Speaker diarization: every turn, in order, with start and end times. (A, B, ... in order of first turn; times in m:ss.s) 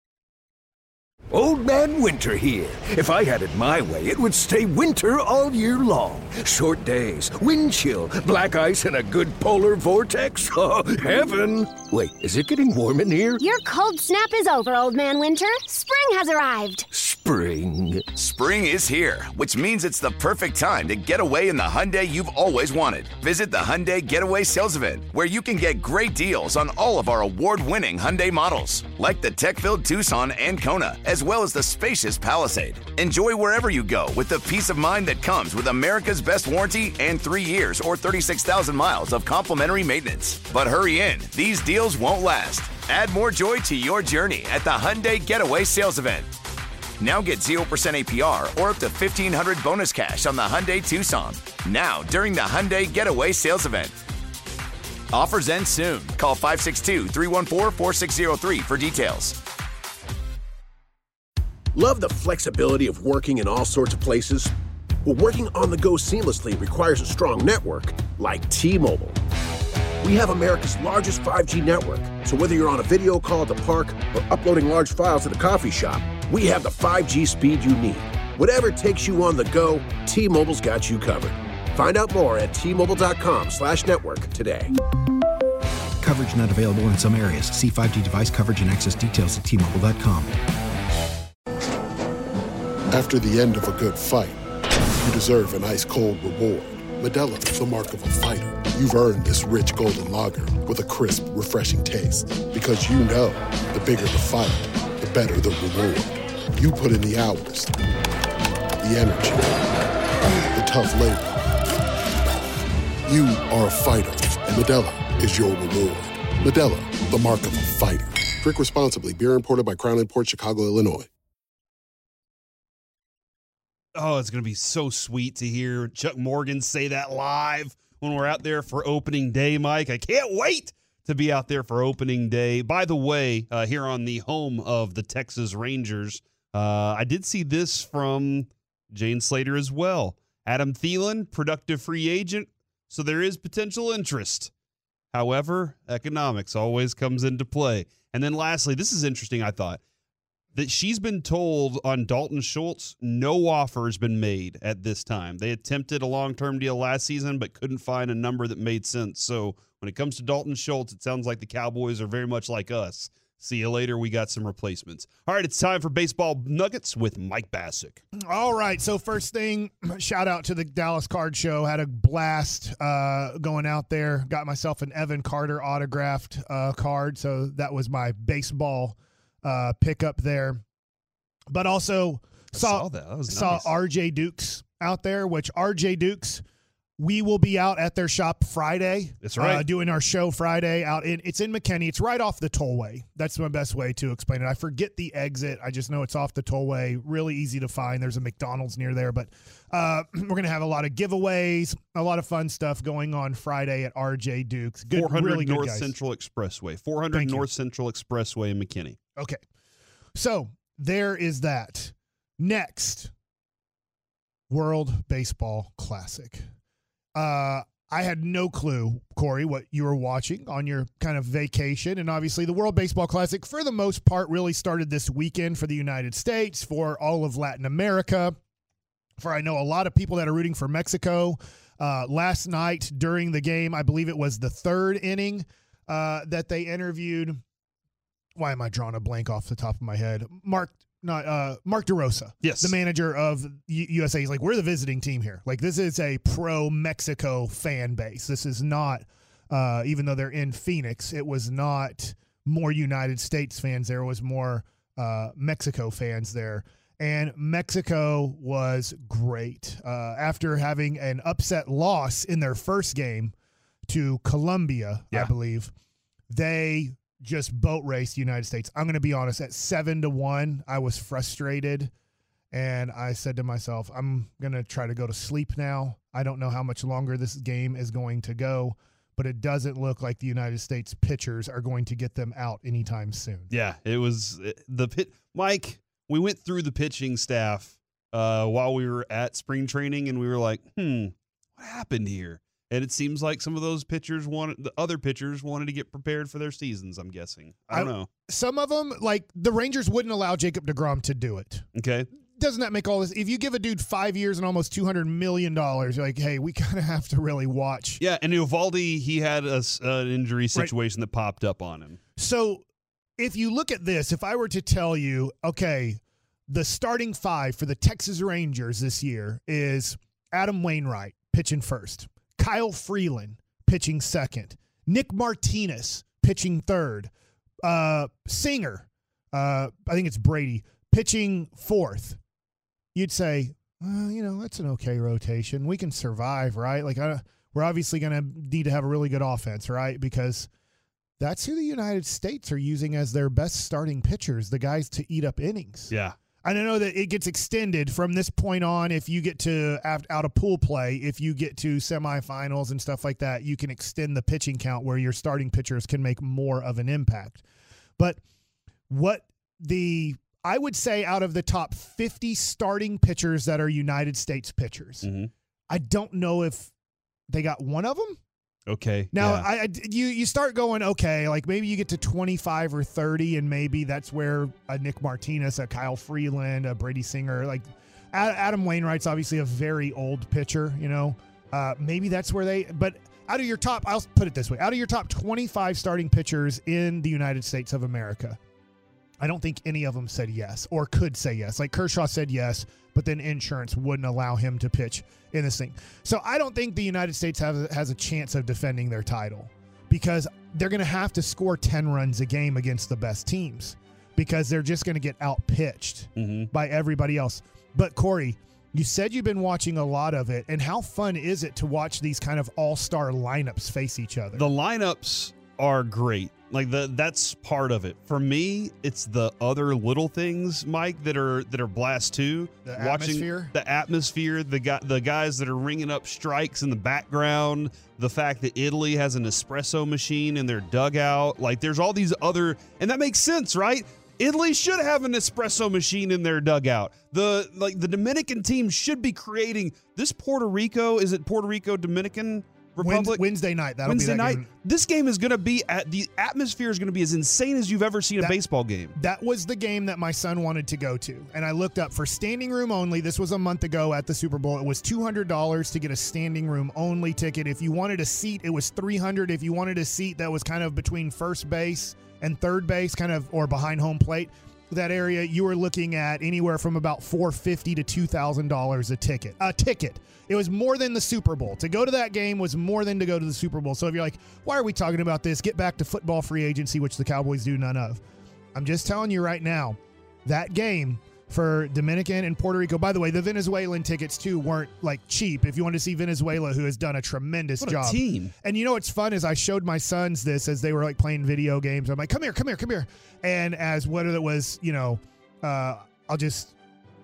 0:01.3-0:13.4 A
0:13.4-0:16.8 B
0:16.9-0:18.1 A
0:18.1-0:46.3 C
0:47.0-0:54.0 C
0:55.1-0:59.4 C
1:01.7-1:04.5 D
1:05.0-1:09.2 D
1:10.0-1:24.7 D
1:26.0-1:30.3 E
1:32.9-1:34.4 F
1:35.0-1:47.8 F
1:48.8-1:49.8 F
1:50.4-1:51.5 F
1:53.0-2:01.1 F
2:03.9-2:24.5 G
2:25.1-2:29.8 G
2:30.5-2:48.0 G
2:48.2-3:00.6 H
3:01.5-3:06.4 H
3:02.5-3:03.7 G
3:07.0-3:25.9 H
3:09.2-3:09.6 G
3:24.9-3:29.0 G
3:27.1-3:27.4 H
3:30.1-3:33.1 H
3:34.5-3:36.4 H
3:37.1-3:48.4 H
3:49.2-3:57.4 H
3:58.4-4:23.3 H
4:02.4-4:02.7 G
4:23.9-4:25.7 H
4:26.3-4:31.9 H
4:32.5-4:43.5 H
4:43.5-4:58.1 G
4:57.7-5:01.6 H
5:01.7-5:02.1 G
5:02.4-5:08.0 H
5:08.0-5:12.0 G
5:12.2-5:12.6 H
5:13.2-5:27.1 H
5:27.6-5:32.2 H
5:32.9-5:40.5 H
5:41.2-5:45.9 H
5:45.9-5:46.2 G
5:46.4-5:57.4 H
5:58.9-6:05.1 H
6:05.0-6:05.3 G
6:05.7-6:06.7 H
6:07.3-6:08.2 H
6:08.7-6:09.5 G
6:09.1-6:28.4 H
6:29.2-6:54.5 H
6:46.2-6:46.5 G
6:54.3-7:23.2 G
7:02.6-7:03.5 H
7:22.8-7:24.5 H
7:23.8-7:28.9 G
7:28.9-7:58.0 H
7:58.5-8:16.5 H
8:07.6-8:08.3 G